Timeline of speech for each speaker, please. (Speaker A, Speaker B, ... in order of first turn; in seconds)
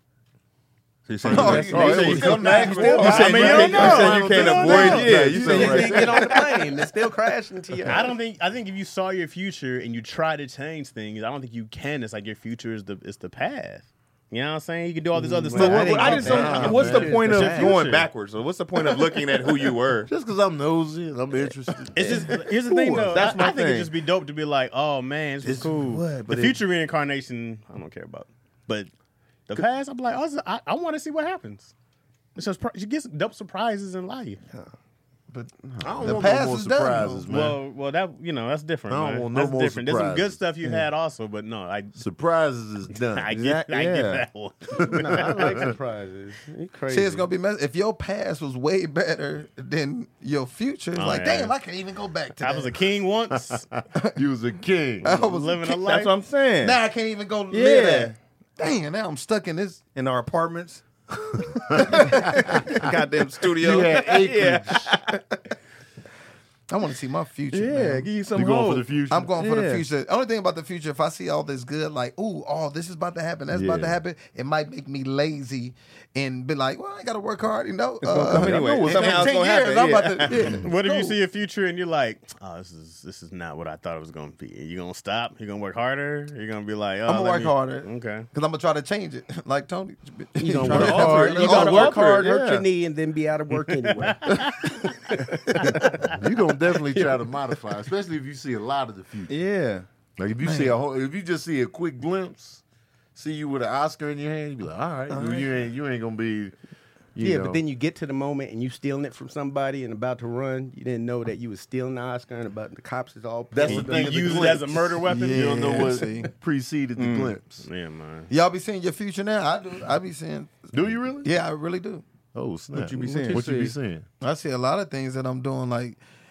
Speaker A: 1.1-6.4, 15.5-20.1, 22.0-23.9, 25.4-26.6, 43.3-44.3, 55.8-56.8, 57.5-58.1, 59.9-60.8, 62.1-65.2, 67.5-69.8, 78.0-80.5, 90.6-92.6, 99.3-99.8, 117.0-117.3, 122.7-123.7
Speaker B: 1.2-6.5, 16.1-17.2, 20.1-22.3, 23.0-23.2, 35.8-37.6, 38.9-40.4, 42.0-43.3, 44.8-45.7, 54.1-55.1, 61.7-62.9, 63.6-65.0, 68.3-69.3, 73.5-74.0, 78.3-79.4, 80.3-80.7, 90.7-91.0, 96.1-99.3, 100.2-102.6, 103.1-106.5, 107.1-107.6, 113.5-117.6, 120.7-121.3, 122.3-124.0
Speaker C: 1.3-4.1, 4.6-4.9, 36.0-37.2, 46.9-52.8, 55.0-55.9, 56.6-59.8, 61.3-62.9, 66.7-68.1, 69.1-81.2, 87.0-92.2, 100.4-100.8, 115.0-116.3, 118.3-122.0, 124.2-126.0
Speaker D: 1.4-5.2, 7.8-18.1, 21.9-28.9, 29.5-31.7, 32.4-34.4, 37.3-42.0, 43.1-45.6, 50.9-51.5, 52.4-53.7, 55.0-56.1, 80.4-88.3, 93.8-94.9, 113.6-116.0, 117.6-118.3
Speaker E: 1.4-4.0, 4.7-8.1, 15.1-17.9, 35.7-36.1, 44.9-47.3, 90.4-94.4, 95.1-95.8, 107.2-114.6